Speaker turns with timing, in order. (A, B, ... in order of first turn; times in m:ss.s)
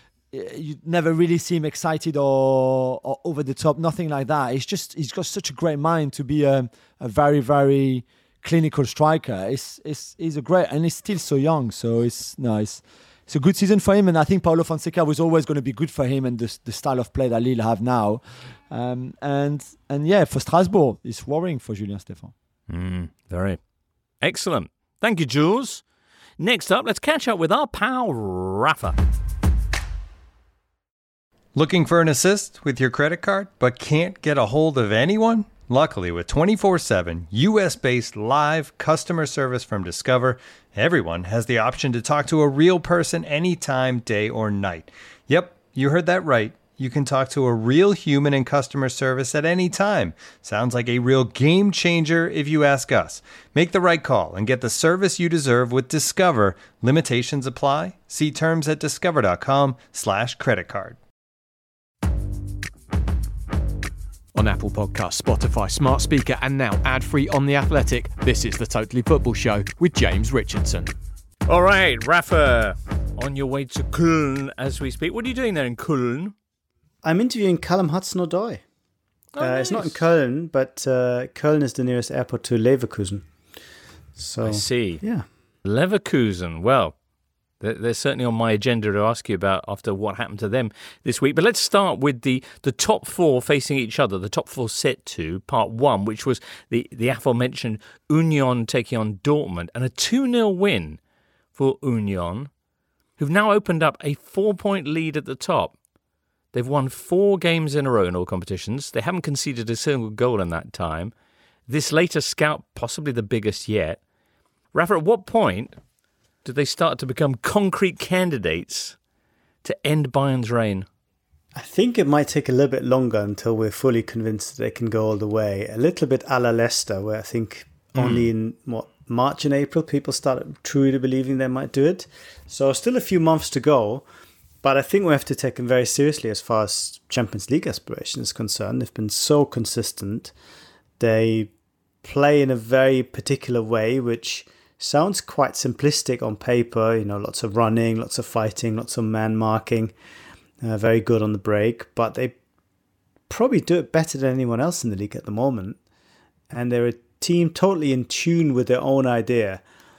0:00.3-0:22.3 A
0:22.7-0:23.6 B
0:24.2-0:25.8 B
0:26.4-0:29.0 B
0:31.5-1:01.0 C
1:04.3-1:10.9 D
1:11.5-1:16.3 B
1:17.0-1:18.6 E
1:19.3-1:19.9 B
1:19.4-1:23.2 E
1:24.2-1:25.2 E
1:24.4-1:25.0 B
1:25.6-1:26.9 B
1:27.6-1:41.0 B
1:41.5-1:42.5 B
1:43.2-1:45.7 B
1:46.5-1:51.1 B
1:51.7-1:54.0 B
1:54.7-1:55.8 B
1:56.4-1:59.0 B
1:59.6-2:00.9 B
2:01.5-2:14.0 E
2:14.6-2:20.3 E
2:21.0-2:21.5 E
2:22.0-2:29.9 E
2:30.6-2:32.3 E
2:33.3-2:35.8 E
2:36.5-2:39.6 E